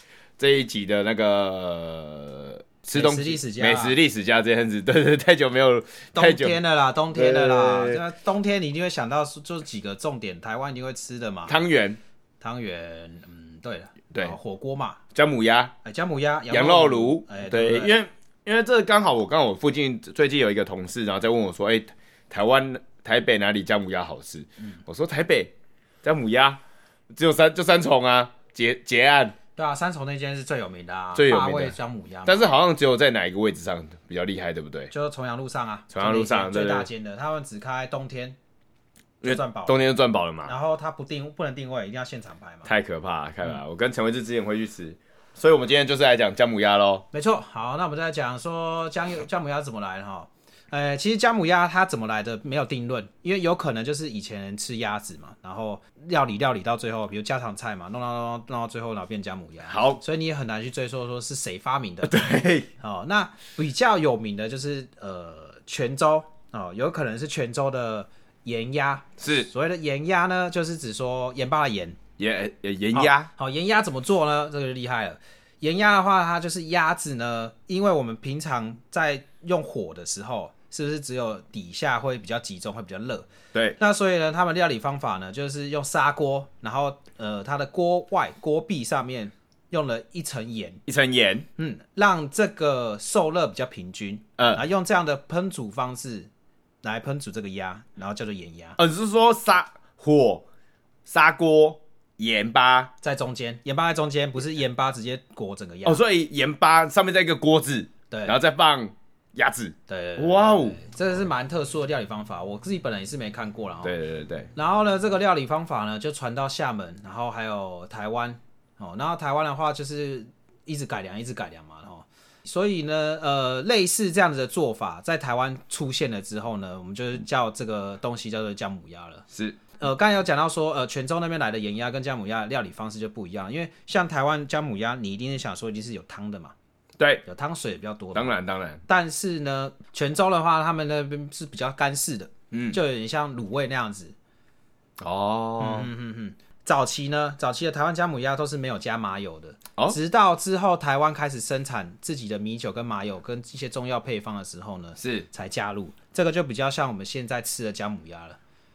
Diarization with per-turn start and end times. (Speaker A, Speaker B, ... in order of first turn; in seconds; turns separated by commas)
Speaker A: 0.4-6.6, Speaker B: 2.9-4.0, Speaker B: 6.1-11.6, Speaker A: 7.1-8.0, Speaker A: 11.5-12.0, Speaker B: 12.4-15.0, Speaker A: 15.1-15.7, Speaker B: 15.8-17.9, Speaker A: 16.5-25.5, Speaker A: 26.0-26.6, Speaker A: 27.1-29.3, Speaker B: 29.6-32.5, Speaker A: 31.1-31.7, Speaker A: 32.3-34.9, Speaker B: 34.9-38.4, Speaker A: 35.9-36.9, Speaker A: 39.2-40.5, Speaker B: 39.2-39.8, Speaker B: 40.5-42.7, Speaker A: 42.6-47.0, Speaker B: 47.1-62.2, Speaker A: 59.7-60.0, Speaker A: 62.0-62.7, Speaker B: 62.8-72.0, Speaker A: 69.2-69.5, Speaker A: 72.2-73.3, Speaker B: 72.9-90.8, Speaker A: 90.9-91.5, Speaker B: 91.6-96.3, Speaker B: 96.8-98.8, Speaker A: 98.8-100.4, Speaker A: 101.0-102.9, Speaker B: 103.0-106.0, Speaker A: 105.8-110.8, Speaker B: 108.1-108.3, Speaker B: 109.9-113.9, Speaker A: 113.8-114.5, Speaker B: 114.5-129.2, Speaker A: 129.3-129.6, Speaker B: 129.8-136.5, Speaker A: 137.0-137.2, Speaker B: 137.2-144.1, Speaker A: 138.1-138.8, Speaker A: 142.5-142.8, Speaker A: 145.0-145.9, Speaker B: 145.6-158.4, Speaker A: 155.0-155.3